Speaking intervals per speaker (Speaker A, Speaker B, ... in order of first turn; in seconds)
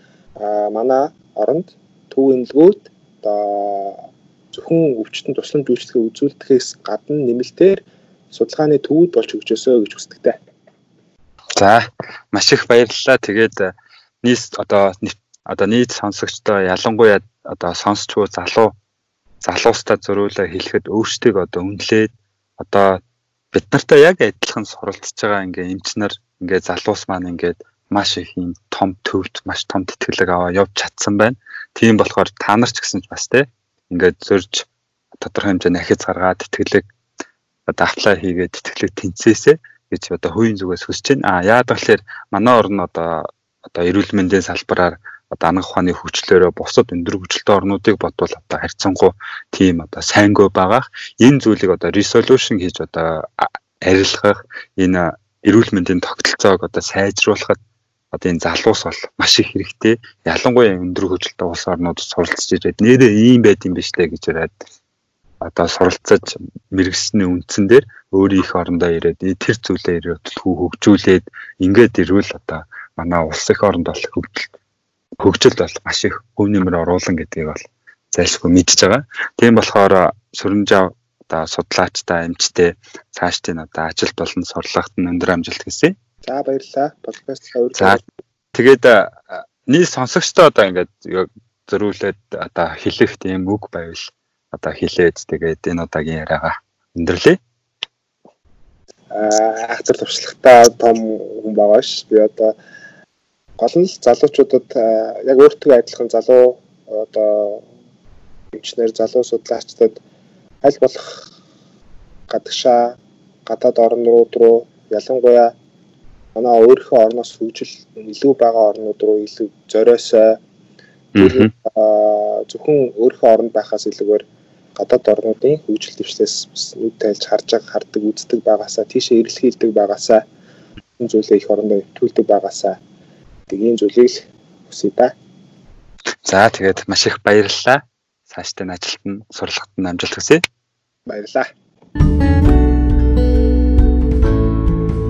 Speaker A: 0.4-10.4, 86.2-88.0, 99.1-102.5, 103.6-107.7, 108.5-110.0, 110.6-111.3, 112.3-115.5, 116.3-120.4, 121.2-124.2, 124.8-130.2, 131.0-132.8, 133.5-135.1, 141.1-141.5
Speaker B: 11.6-18.7, 19.4-23.0, 23.5-36.9, 37.7-57.6, 58.1-64.5, 65.4-74.5, 75.2-85.9, 87.7-88.0, 88.5-97.4, 121.1-121.5, 136.2-140.4